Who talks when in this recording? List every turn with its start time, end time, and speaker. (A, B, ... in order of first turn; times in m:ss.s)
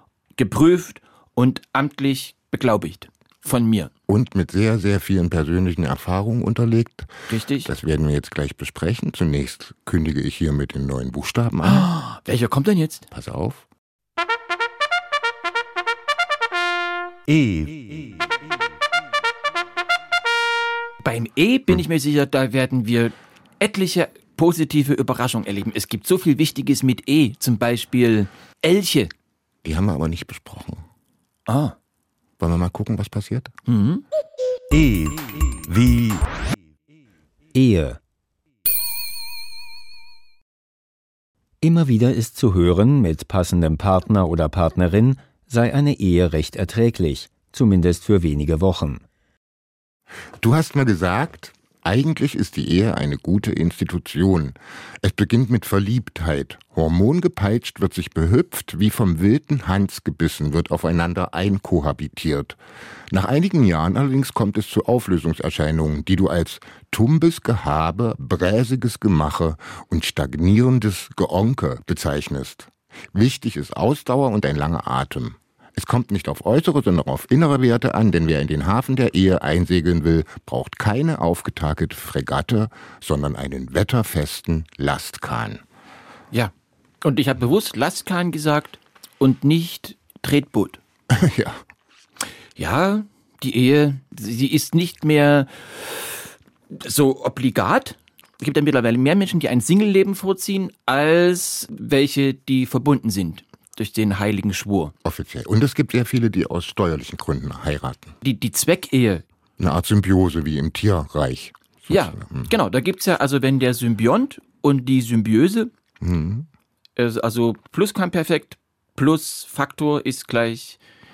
0:00.4-0:03.9 A
0:04.1-0:07.1 B
0:07.3-0:07.7 A
0:07.6-0:11.9 B
0:11.6-0:13.1 A
0:13.1-0:13.7 B
0:17.3-0:18.2 C
0:21.0-0:29.1 A
0:29.6-0:30.9 B
0:31.5-0:31.8 A
0:32.4-0:33.5 B
0:33.7-0:34.0 A
0:34.7-0:36.3 C
0:37.5-0:38.0 D
0:41.6-0:49.0 D
0:50.4-1:02.6 B
1:03.1-1:25.6 B
1:26.3-1:30.8 A
1:31.1-1:31.6 B
1:32.6-1:44.9 A
1:45.0-1:48.2 B
1:48.2-1:49.2 A
1:49.6-1:52.5 B
1:51.9-1:55.7 A
1:56.0-1:56.5 B
1:57.0-2:00.8 A